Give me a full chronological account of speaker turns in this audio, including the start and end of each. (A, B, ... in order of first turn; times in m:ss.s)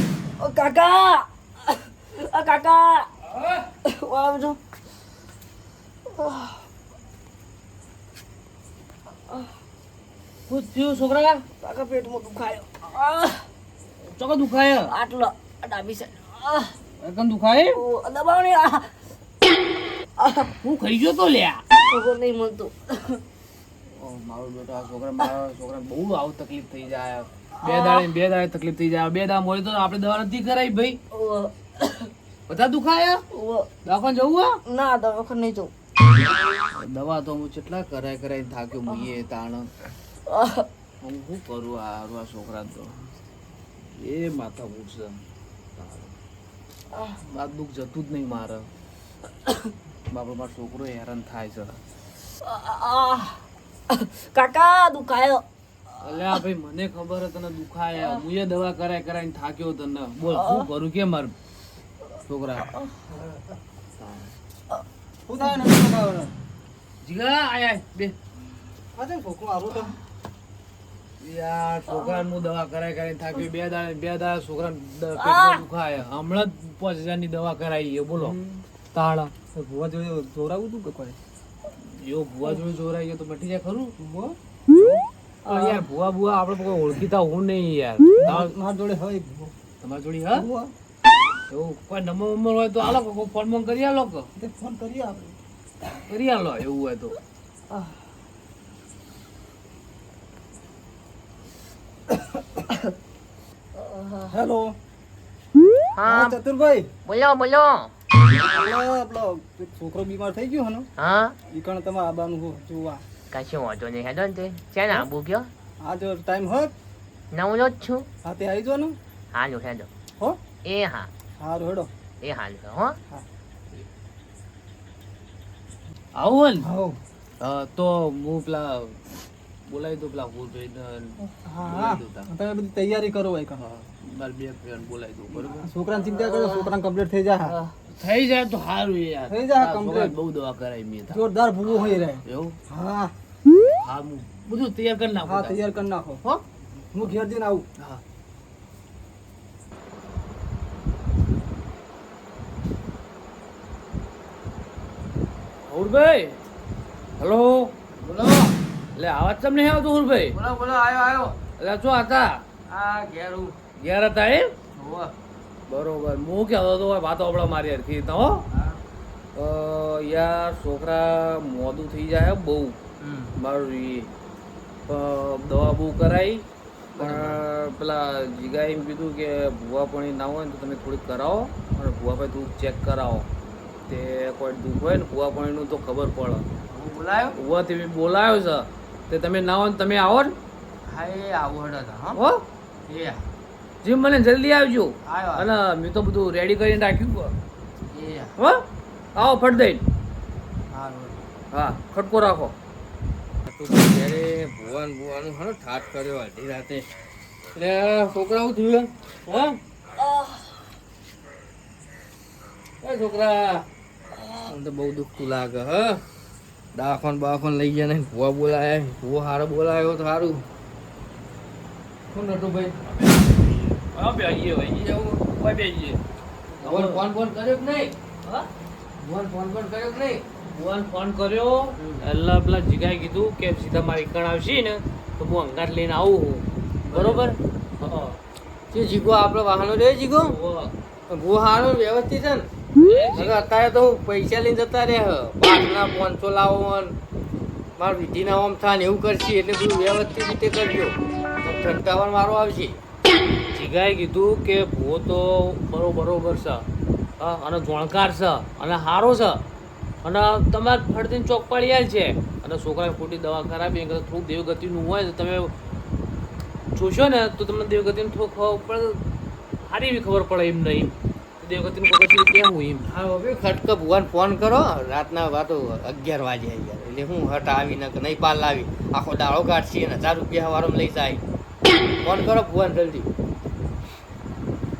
0:00.4-0:03.1 A
0:03.8-0:04.6 A
0:06.1-0:06.6 A
0:10.5-0:11.4 B
0:11.6-0:13.5 A
0:14.1-0:14.9 B
0:14.9-0:16.8 A
0:17.0-0:17.8 B
0:17.7-0:18.9 A
0:20.2-0:20.5 A
0:20.6-0:21.6 B
0:21.8-0:23.2 A
0:23.9-0:31.0 B
0:27.6-0:28.1 A
0:31.1-0:32.1 A
0:32.5-0:33.2 B
0:33.3-0:33.7 A
0:33.8-0:34.6 B
0:34.6-0:35.7 A
0:36.7-0:39.7 B
0:38.9-0:39.1 A
0:40.3-0:40.7 A
0:41.0-0:43.1 B
0:43.9-0:45.2 B
0:45.8-0:46.1 B
0:47.3-0:48.7 B
0:50.1-0:51.8 B
0:52.4-0:55.4 A
0:56.0-1:01.3 B
1:00.2-1:00.7 A
1:02.3-1:02.6 B
1:04.0-1:04.3 B
1:05.2-1:06.3 C
1:07.0-1:08.1 B
1:08.9-1:09.9 C
1:11.2-1:18.4 B
1:11.9-1:12.2 A
1:15.1-1:15.6 A
1:18.2-1:18.6 C
1:18.9-1:19.3 B
1:19.5-1:21.2 C
1:21.8-1:23.9 B
1:24.0-1:24.9 C
1:25.4-1:28.5 B
1:25.5-1:25.8 C
1:28.2-1:29.5 C
1:29.8-1:30.4 B
1:30.3-1:30.7 C
1:31.5-1:34.3 B
1:34.4-1:35.4 C
1:36.1-1:37.2 B
1:43.8-1:44.3 A
1:44.2-1:44.8 C
1:46.0-1:46.4 D
1:46.0-1:46.9 C
1:47.0-1:47.9 D
1:48.3-1:50.9 C
1:51.0-1:51.3 D
1:51.5-1:53.0 C
1:53.3-1:55.5 D
1:55.8-1:56.7 C
1:57.3-1:58.0 D
1:58.2-1:59.0 C
1:59.3-1:59.9 D
2:00.6-2:01.1 D
2:01.4-2:01.9 C
2:02.2-2:03.0 D
2:06.1-2:06.7 B
2:06.6-2:07.0 C
2:07.4-2:09.1 B
2:09.7-2:12.3 B
2:11.4-2:13.6 C
2:13.6-2:15.7 B
2:15.3-2:17.6 C
2:17.9-2:21.2 B
2:19.3-2:20.1 C
2:21.1-2:23.1 C
2:22.2-2:22.6 B
2:23.8-2:25.6 B
2:25.2-2:26.2 C
2:26.9-2:27.6 C
2:35.7-2:36.4 B
2:37.2-2:37.7 B
2:38.0-2:38.6 E
2:39.0-2:40.4 B
2:40.3-2:41.4 E
2:41.6-2:42.4 B
2:42.7-2:43.6 E
2:43.8-2:44.6 B
2:44.8-2:45.1 E
2:45.7-2:48.4 B
2:48.5-2:48.8 E
2:49.3-2:52.8 B
2:53.0-2:53.3 E
2:53.4-2:54.1 B
2:54.9-2:56.4 B
2:57.0-2:57.4 E
2:57.0-3:03.3 B
3:03.9-3:06.4 B
3:06.7-3:07.4 E
3:07.3-3:10.4 B
3:10.8-3:12.2 E
3:12.1-3:12.4 B
3:12.9-3:13.2 E
3:13.8-3:17.3 B
3:15.0-3:15.5 E
3:17.9-3:18.3 E
3:18.4-3:18.6 B
3:19.1-3:19.8 B
3:20.7-3:21.2 E
3:21.5-3:22.5 B
3:23.4-3:26.9 E
3:27.5-3:29.3 E
3:29.3-3:29.5 B
3:30.0-3:30.6 A
3:32.8-3:33.6 E
3:34.1-3:34.5 A
3:34.4-3:36.0 E
3:36.7-3:40.4 E
3:42.1-3:42.9 E
3:42.9-3:46.0 B
3:44.6-3:45.2 E
3:46.6-3:47.0 B
3:46.6-3:47.9 E
3:49.0-3:50.2 E
3:50.5-3:58.2 B
3:51.8-3:52.0 E
3:56.9-3:57.3 E
3:58.7-4:00.3 E
4:00.2-4:00.7 B
4:01.1-4:02.5 E
4:02.8-4:03.4 B
4:03.1-4:07.0 E
4:07.8-4:12.8 E
4:13.5-4:16.6 B
4:17.2-4:19.4 B
4:20.0-4:25.5 B
4:26.7-4:29.0 B
4:29.6-4:32.9 B
4:32.8-4:41.2 E
4:42.0-4:43.1 E